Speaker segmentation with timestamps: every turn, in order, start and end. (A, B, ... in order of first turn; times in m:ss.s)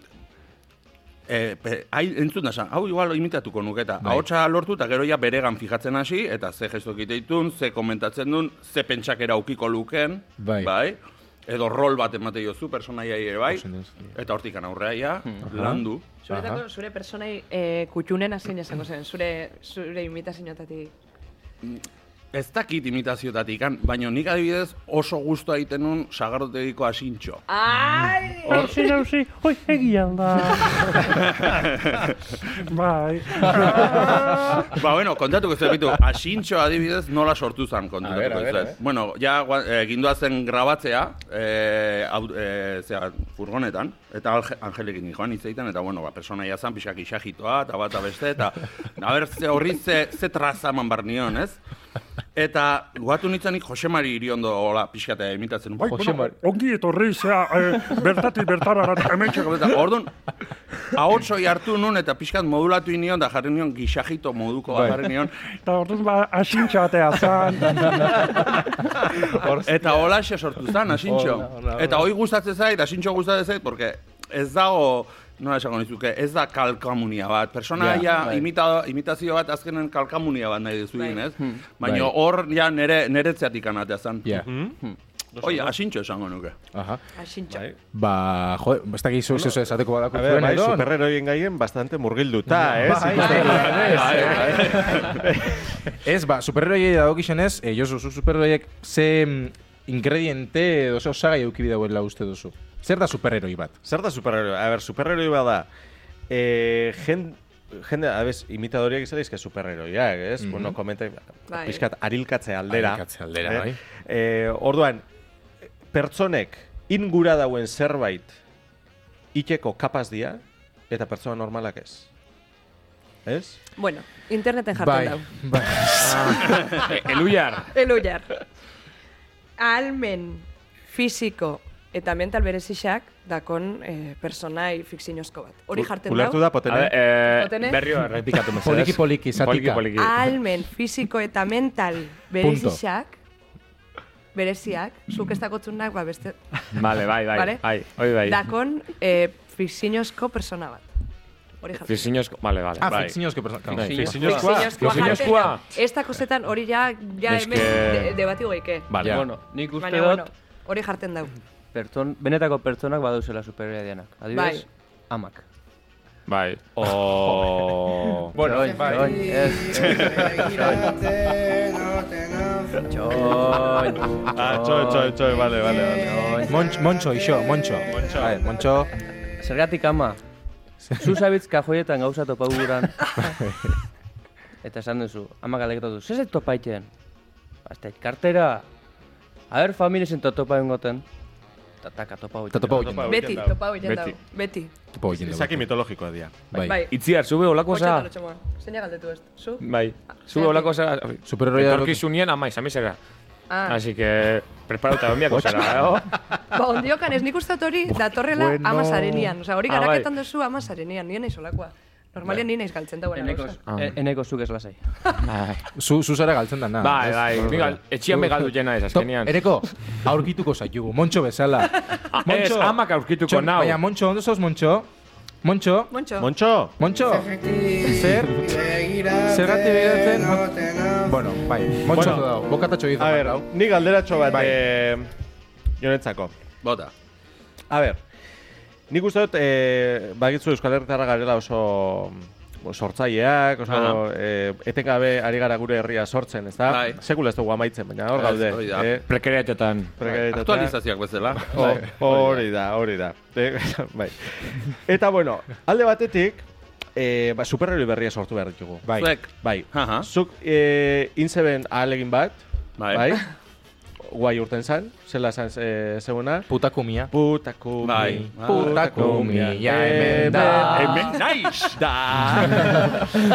0:01.3-0:16.0 A
0:04.0-0:04.3 B
0:10.4-0:10.7 B
0:13.5-0:14.1 B
0:15.5-0:16.6 B
0:16.2-0:20.9 C
0:21.6-0:27.4 A
0:27.5-0:28.8 C
0:28.4-0:31.2 D
0:31.1-0:32.2 A
0:32.7-0:34.7 D
0:34.6-0:51.6 A
0:38.0-0:38.8 B
0:52.4-0:56.3 A
0:55.9-0:56.3 B
0:56.0-0:59.6 D
0:59.1-1:00.1 A
1:00.9-1:05.5 A
1:04.7-1:05.0 B
1:05.7-1:08.5 D
1:09.2-1:09.9 B
1:09.6-1:26.6 A
1:11.1-1:12.1 B
1:17.8-1:18.1 B
1:18.1-1:18.5 E
1:21.8-1:22.1 B
1:24.4-1:24.8 F
1:25.4-1:25.7 F
1:26.7-1:27.0 B
1:27.2-1:27.6 C
1:27.5-1:27.8 F
1:27.9-1:30.9 B
1:30.1-1:34.2 F
1:32.6-1:43.8 B
1:33.2-1:35.1 E
1:33.5-1:35.1 A
1:35.2-1:35.6 F
1:43.8-1:45.7 F
1:46.3-1:55.0 F
1:50.4-1:50.8 B
1:51.5-1:51.8 C
1:52.7-1:53.8 B
1:55.9-1:58.3 F
1:59.3-2:02.1 F
2:03.2-2:03.6 F
2:03.8-2:05.3 C
2:04.7-2:06.6 B
2:06.0-2:07.7 G
2:07.7-2:08.3 C
2:09.6-2:16.4 C
2:15.8-2:17.0 F
2:16.7-2:20.3 G
2:17.3-2:17.8 C
2:18.6-2:19.9 B
2:20.0-2:23.2 C
2:22.4-2:22.8 B
2:24.3-2:26.6 C
2:26.7-2:28.4 G
2:27.3-2:30.9 C
2:31.6-2:32.1 C
2:31.8-2:33.1 G
2:32.8-2:35.3 B
2:32.9-2:33.2 F
2:33.8-2:34.1 G
2:33.8-2:34.7 E
2:33.9-2:34.6 F
2:34.2-2:38.9 C
2:34.8-2:35.6 G
2:37.3-2:38.2 G
2:38.9-2:39.2 F
2:39.0-2:40.3 E
2:39.7-2:41.3 C
2:41.7-2:45.4 E
2:44.3-2:44.6 C
2:46.3-2:46.9 G
2:46.8-2:48.3 F
2:47.3-2:47.7 B
2:48.3-2:49.4 B
2:48.3-2:51.1 E
2:52.8-2:55.2 E
2:54.3-2:56.4 F
2:56.1-2:56.5 E
2:56.5-2:58.9 B
2:57.9-2:58.4 F
2:59.4-3:00.2 E
3:01.0-3:03.1 E
3:03.3-3:03.7 B
3:04.6-3:06.9 E
3:07.6-3:08.6 E
3:09.5-3:11.0 E
3:11.8-3:13.3 E
3:12.5-3:13.2 B
3:13.0-3:13.6 F
3:13.1-3:14.7 C
3:13.7-3:14.2 G
3:15.0-3:15.7 B
3:15.1-3:16.5 F
3:16.5-3:16.8 B
3:16.6-3:16.9 C
3:16.9-3:18.1 G
3:17.7-3:20.7 C
3:19.6-3:23.0 G
3:21.2-3:22.0 B
3:23.5-3:23.8 C
3:23.7-3:26.1 G
3:25.3-3:25.8 B
3:26.5-3:33.6 C
3:27.9-3:29.4 B
3:29.7-3:30.1 G
3:33.1-3:34.8 E
3:35.2-3:35.6 G
3:35.8-3:44.9 B
3:36.8-3:39.4 G
3:42.1-3:43.8 G
3:45.4-3:45.9 B
3:45.9-3:46.3 C
3:46.2-3:46.7 F
3:46.8-3:53.5 B
3:51.9-3:52.3 F
3:53.0-3:55.1 F
3:54.3-3:54.6 B
3:55.8-3:56.3 F
3:56.6-3:56.9 A
3:57.7-3:58.0 F
3:58.9-4:09.0 F
4:03.7-4:04.0 A
4:06.7-4:07.0 A
4:08.2-4:09.0 A
4:09.1-4:09.9 G
4:10.0-4:10.8 F
4:10.0-4:11.8 A
4:11.5-4:18.8 F
4:11.5-4:12.2 B
4:18.8-4:19.1 B
4:19.0-4:20.1 A
4:19.4-4:23.3 F
4:22.8-4:23.1 A
4:24.0-4:26.5 F
4:26.5-4:27.1 B
4:27.1-4:31.0 F
4:27.8-4:29.1 A
4:27.9-4:31.1 B
4:30.6-4:31.8 A
4:31.8-4:33.1 F